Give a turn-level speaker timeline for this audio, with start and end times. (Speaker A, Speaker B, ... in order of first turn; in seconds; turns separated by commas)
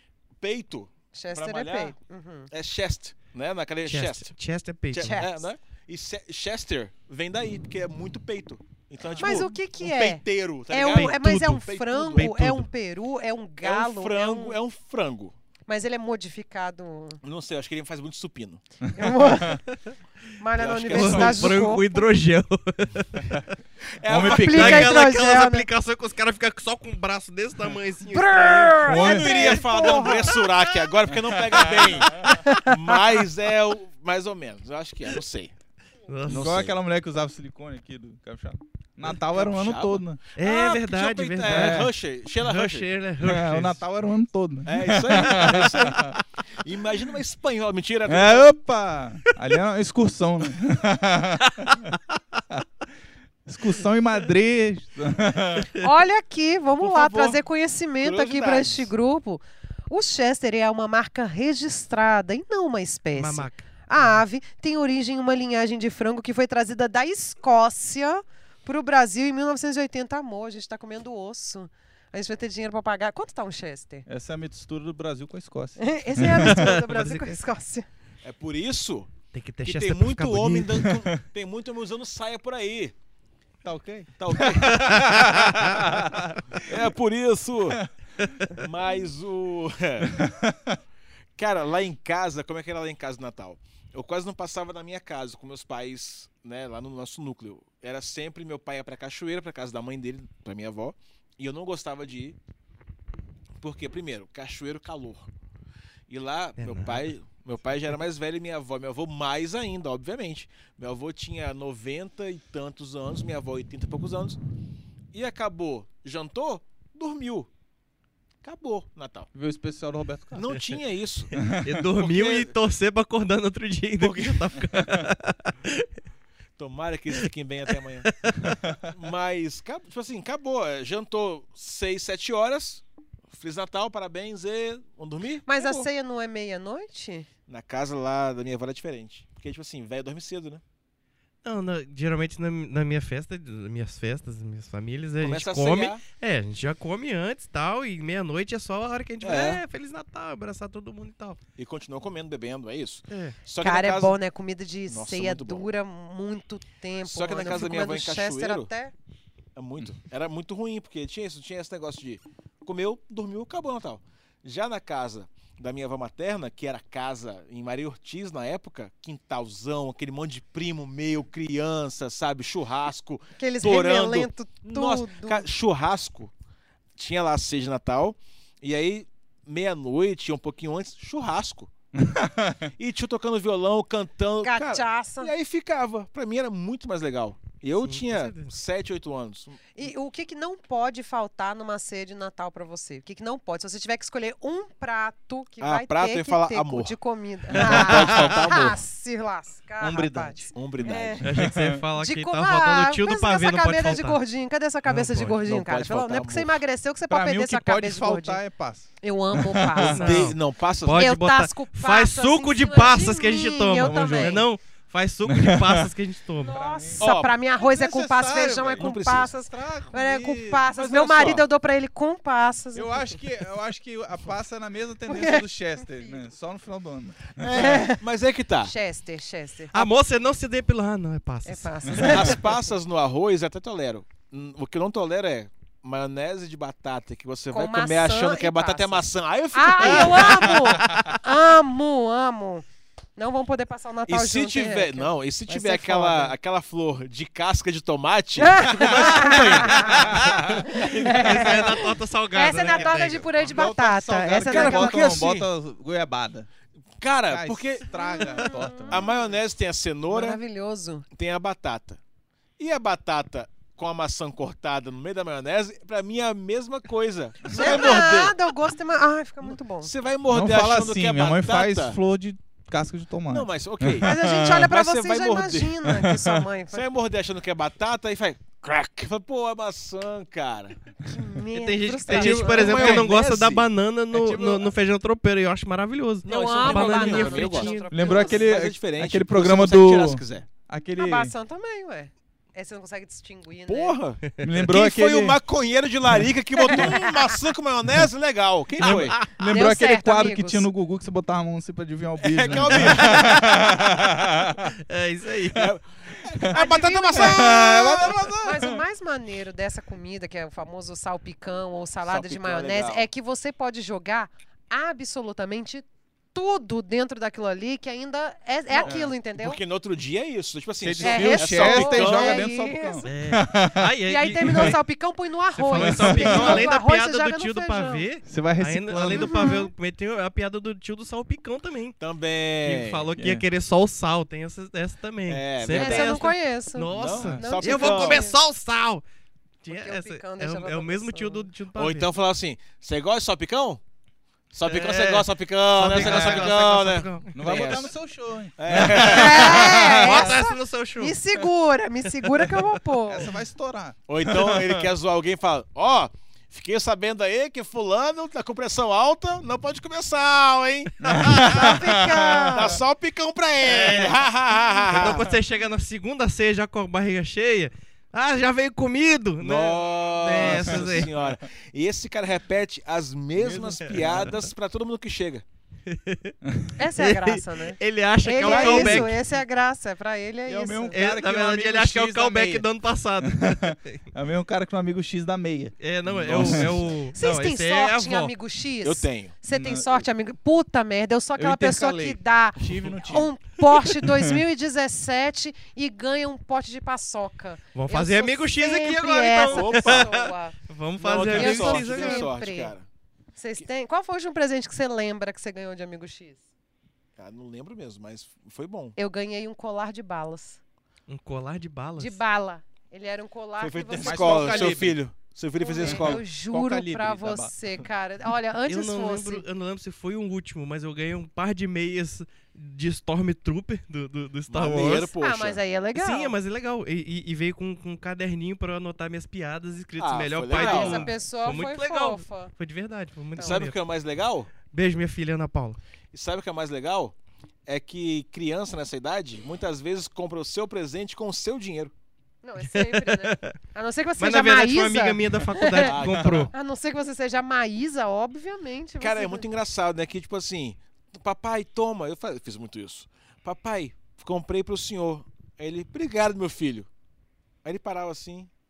Speaker A: 0.4-1.9, Speaker B: 1.1-2.5, Speaker A: 2.5-4.3, Speaker C: 3.9-5.2, Speaker A: 4.9-12.4, Speaker B: 5.0-5.5, Speaker D: 9.0-9.4, Speaker B: 9.2-14.6, Speaker C: 10.9-12.7, Speaker A: 13.6-15.4, Speaker B: 15.7-17.2, Speaker A: 17.2-18.6, Speaker D: 18.9-19.6, Speaker B: 18.9-19.6, Speaker B: 20.4-22.0, Speaker A: 20.5-21.6, Speaker C: 20.9-23.4, Speaker A: 23.9-24.9, Speaker D: 24.1-24.9, Speaker B: 24.1-25.7, Speaker C: 24.3-28.8, Speaker B: 28.1-30.4, Speaker A: 28.6-35.5, Speaker D: 28.9-29.6, Speaker C: 30.3-30.9, Speaker D: 31.5-32.4, Speaker C: 31.8-33.1, Speaker C: 36.1-36.5, Speaker A: 36.3-36.8, Speaker D: 36.3-40.2, Speaker A: 39.1-42.9, Speaker C: 40.4-43.8, Speaker D: 41.5-41.9, Speaker D: 43.2-46.2, Speaker A: 44.7-48.5, Speaker D: 48.1-51.9, Speaker D: 53.5-55.7, Speaker B: 55.7-74.1, Speaker A: 56.8-57.4, Speaker A: 58.0-58.9, Speaker C: 63.1-63.6, Speaker D: 74.1-76.8, Speaker B: 75.8-77.9, Speaker C: 76.3-77.4, Speaker A: 78.2-79.1, Speaker C: 79.3-80.9, Speaker A: 79.6-82.9, Speaker D: 83.6-86.9, Speaker A: 84.2-85.8, Speaker C: 84.6-85.2, Speaker A: 86.6-87.8, Speaker D: 87.8-88.2, Speaker A: 88.5-90.2, Speaker D: 90.0-90.8, Speaker A: 91.4-102.4, Speaker A: 103.6-105.3, Speaker A: 106.1-114.4, Speaker C: 106.6-107.1, Speaker A: 115.1-117.5, Speaker A: 118.4-119.3, Speaker D: 119.3-120.6, Speaker A: 120.3-122.5, Speaker D: 121.3-121.8, Speaker C: 121.4-125.9, Speaker A: 124.0-124.5, Speaker A: 126.6-128.1, Speaker C: 128.0-128.6, Speaker D: 128.5-128.8, Speaker A: 128.8-135.9, Speaker B: 135.5-137.3, Speaker A: 137.5-140.6, Speaker C: 141.4-151.4, Speaker A: 145.2-146.0, Speaker A: 149.2-149.6, Speaker A: 151.6-154.2, Speaker C: 153.1-153.4, Speaker B: 153.6-158.9, Speaker A: 154.9-155.7, Speaker A: 157.1-158.7, Speaker A: 159.6-176.3, Speaker B: 173.4-175.5, Speaker A: 177.0-181.7, Speaker D: 181.9-182.7, Speaker A: 182.8-189.7, Speaker B: 184.4-185.3, Speaker C: 187.8-188.5, Speaker B: 189.8-201.3, Speaker A: 195.6-197.0, Speaker A: 197.5-198.8, Speaker D: 199.8-200.5, Speaker A: 200.5-201.3, Speaker C: 201.2-204.2, Speaker D: 201.3-201.8, Speaker B: 202.0-208.4, Speaker C: 204.9-205.4, Speaker A: 205.4-206.6, Speaker D: 207.1-210.2, Speaker B: 209.0-210.3, Speaker C: 209.8-216.6, Speaker A: 210.0-211.1, Speaker B: 210.9-214.4, Speaker D: 213.8-214.3, Speaker D: 215.3-215.9, Speaker B: 216.4-223.2, Speaker D: 216.5-220.7, Speaker A: 217.0-217.3, Speaker A: 218.7-219.3, Speaker A: 220.7-221.5, Speaker D: 222.7-227.6, Speaker B: 225.1-225.4, Speaker A: 227.4-228.7, Speaker B: 227.5-228.0, Speaker B: 228.6-229.9, Speaker C: 229.7-232.1, Speaker B: 231.5-232.4, Speaker A: 232.0-241.1, Speaker B: 237.5-242.7, Speaker B: 243.2-246.3, Speaker A: 244.1-251.5, Speaker B: 248.4-255.2, Speaker D: 249.3-250.6, Speaker C: 249.9-253.5, Speaker D: 251.2-251.5, Speaker D: 252.6-252.9, Speaker D: 253.4-256.5, Speaker A: 254.4-255.5, Speaker A: 257.0-260.4, Speaker D: 257.3-259.1, Speaker B: 258.0-259.3, Speaker B: 260.1-261.1, Speaker A: 261.1-262.0, Speaker A: 262.6-268.4, Speaker B: 267.5-269.9, Speaker A: 269.8-272.0, Speaker D: 270.3-274.7, Speaker A: 273.3-275.8, Speaker B: 274.0-276.9, Speaker D: 275.9-276.5, Speaker A: 276.7-280.8, Speaker B: 281.1-283.0, Speaker C: 281.5-287.9, Speaker A: 282.1-284.7, Speaker D: 282.3-283.1, Speaker A: 286.2-290.5, Speaker B: 286.3-288.5, Speaker D: 287.9-291.3, Speaker B: 291.0-294.0, Speaker A: 293.7-299.2, Speaker D: 294.4-295.4, Speaker B: 296.6-297.3, Speaker D: 298.8-304.7, Speaker C: 298.9-299.1, Speaker B: 299.4-300.7, Speaker A: 302.2-303.6, Speaker C: 302.7-303.7, Speaker C: 304.9-305.7, Speaker A: 305.5-308.4, Speaker D: 306.3-306.5, Speaker B: 306.5-319.6, Speaker D: 307.1-308.8, Speaker A: 312.0-313.1, Speaker A: 318.8-322.5, Speaker D: 318.8-319.1, Speaker D: 320.8-323.9, Speaker B: 321.0-323.1, Speaker C: 323.0-324.8, Speaker B: 324.1-328.1, Speaker D: 324.4-324.8, Speaker C: 325.6-332.0, Speaker D: 325.8-326.7, Speaker D: 328.3-329.6, Speaker B: 329.2-329.7, Speaker A: 332.0-333.1, Speaker C: 332.6-339.0, Speaker D: 333.2-333.4, Speaker A: 335.3-336.3, Speaker B: 335.7-338.4, Speaker A: 336.9-338.3, Speaker D: 337.1-337.4, Speaker C: 339.6-342.1, Speaker B: 339.7-341.5, Speaker A: 341.8-343.8, Speaker A: 344.5-347.9, Speaker C: 344.6-347.8, Speaker D: 345.9-346.6, Speaker D: 347.3-350.4, Speaker A: 348.6-349.7, Speaker B: 348.7-353.3, Speaker C: 349.8-351.2, Speaker D: 353.1-354.9, Speaker A: 354.1-361.7, Speaker D: 361.0-362.8, Speaker C: 361.0-361.5, Speaker B: 361.4-362.8, Speaker A: 362.5-365.3, Speaker C: 363.6-364.2, Speaker C: 364.9-371.1, Speaker D: 364.9-365.4, Speaker A: 369.4-375.4, Speaker D: 370.4-371.3, Speaker D: 373.4-374.4, Speaker C: 373.9-374.2, Speaker C: 375.9-376.4, Speaker D: 376.4-376.7, Speaker B: 376.8-381.0, Speaker C: 377.0-379.1, Speaker D: 378.4-379.1, Speaker A: 378.4-379.0, Speaker D: 380.5-382.7, Speaker C: 380.9-384.0, Speaker D: 383.2-386.9, Speaker C: 385.8-388.3, Speaker A: 386.3-386.6, Speaker B: 387.1-400.6, Speaker A: 388.8-389.4, Speaker D: 389.5-390.1, Speaker D: 391.4-393.3, Speaker D: 394.0-394.4, Speaker C: 397.8-402.3, Speaker A: 399.5-400.3, Speaker A: 401.0-402.9, Speaker B: 401.2-402.7, Speaker B: 403.4-406.4, Speaker A: 407.2-409.0, Speaker B: 409.0-410.6, Speaker C: 411.1-412.2, Speaker B: 412.0-414.9, Speaker A: 413.6-416.2, Speaker D: 414.0-415.0, Speaker B: 415.6-419.4, Speaker D: 415.8-417.6, Speaker C: 418.7-425.1, Speaker A: 424.5-425.6, Speaker B: 425.1-426.4, Speaker C: 425.9-433.8, Speaker A: 430.0-431.1, Speaker B: 430.5-432.5, Speaker B: 433.4-433.6, Speaker A: 433.4-434.5, Speaker C: 434.7-435.8, Speaker A: 436.1-437.1, Speaker A: 437.7-441.9, Speaker B: 442.4-446.0, Speaker C: 442.6-443.6, Speaker C: 444.2-446.5, Speaker A: 445.8-446.5, Speaker B: 446.5-449.5, Speaker A: 449.0-456.9, Speaker A: 457.6-458.5